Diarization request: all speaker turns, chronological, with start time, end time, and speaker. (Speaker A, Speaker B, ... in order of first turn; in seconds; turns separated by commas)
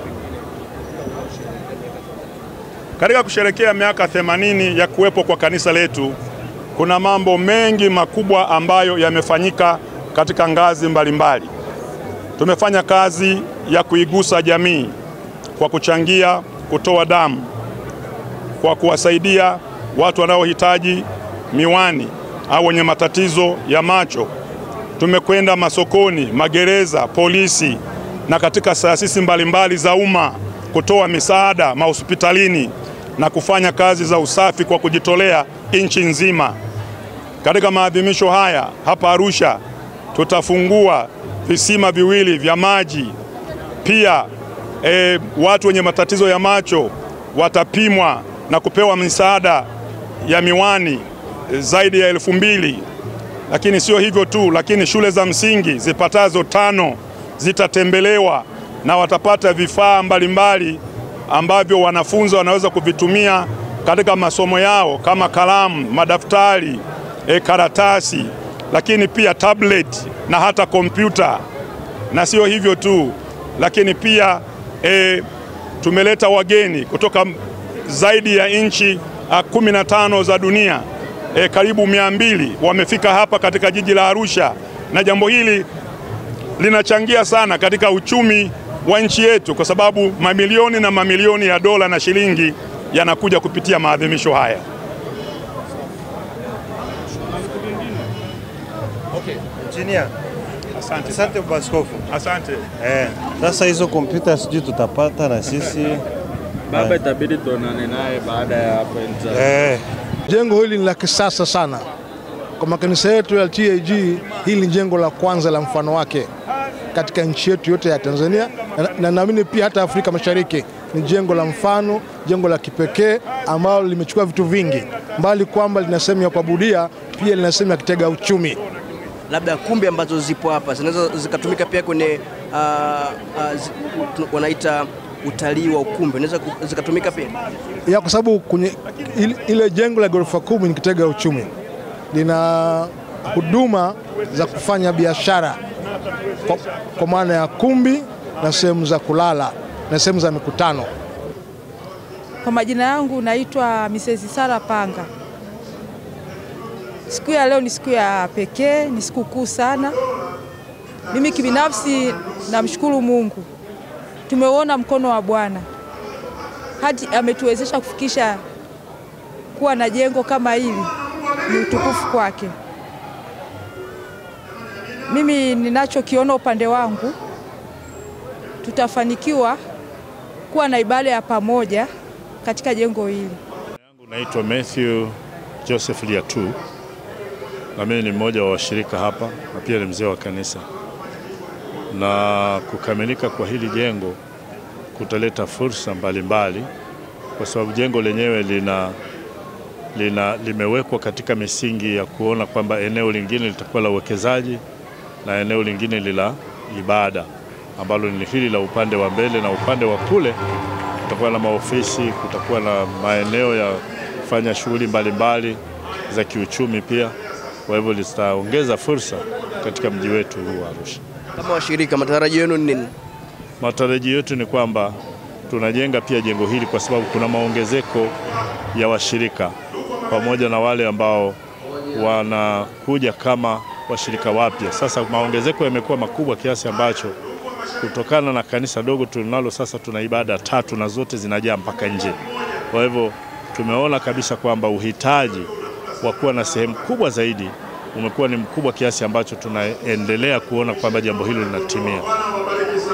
Speaker A: 3.0-6.2, Speaker A: 6.8-11.5, Speaker A: 12.4-14.9, Speaker A: 15.6-17.5, Speaker A: 18.6-24.3, Speaker A: 25.0-36.6, Speaker A: 37.4-39.6, Speaker A: 40.1-43.1, Speaker A: 43.8-44.3, Speaker A: 44.8-49.7, Speaker A: 50.2-52.8, Speaker A: 53.5-71.4, Speaker A: 72.1-75.2, Speaker A: 75.8-85.7, Speaker A: 86.6-94.6, Speaker B: 99.5-100.1, Speaker A: 100.7-101.3, Speaker B: 101.0-102.0, Speaker A: 102.1-102.7, Speaker B: 102.8-106.0, Speaker C: 106.7-109.4, Speaker B: 109.3-109.8, Speaker D: 110.3-111.8, Speaker D: 112.6-116.3, Speaker D: 116.9-128.6, Speaker E: 129.3-137.3, Speaker D: 137.8-141.5, Speaker D: 142.1-145.6, Speaker D: 146.4-150.9, Speaker F: 152.4-155.1, Speaker F: 157.1-160.0, Speaker F: 161.1-163.5, Speaker F: 164.3-165.7, Speaker F: 166.8-168.4, Speaker F: 169.5-172.5, Speaker F: 175.0-177.2, Speaker F: 178.6-179.6, Speaker F: 180.5-181.9, Speaker F: 182.4-183.3, Speaker G: 183.9-186.6, Speaker G: 187.7-190.7, Speaker G: 191.9-194.2, Speaker G: 194.9-196.7, Speaker G: 197.4-199.0, Speaker G: 199.9-204.6, Speaker G: 205.2-210.4, Speaker G: 211.1-217.1, Speaker G: 217.7-221.0, Speaker E: 221.4-222.9, Speaker G: 223.6-225.0, Speaker G: 225.5-228.1, Speaker G: 228.7-231.4, Speaker G: 231.9-237.2, Speaker G: 237.8-252.1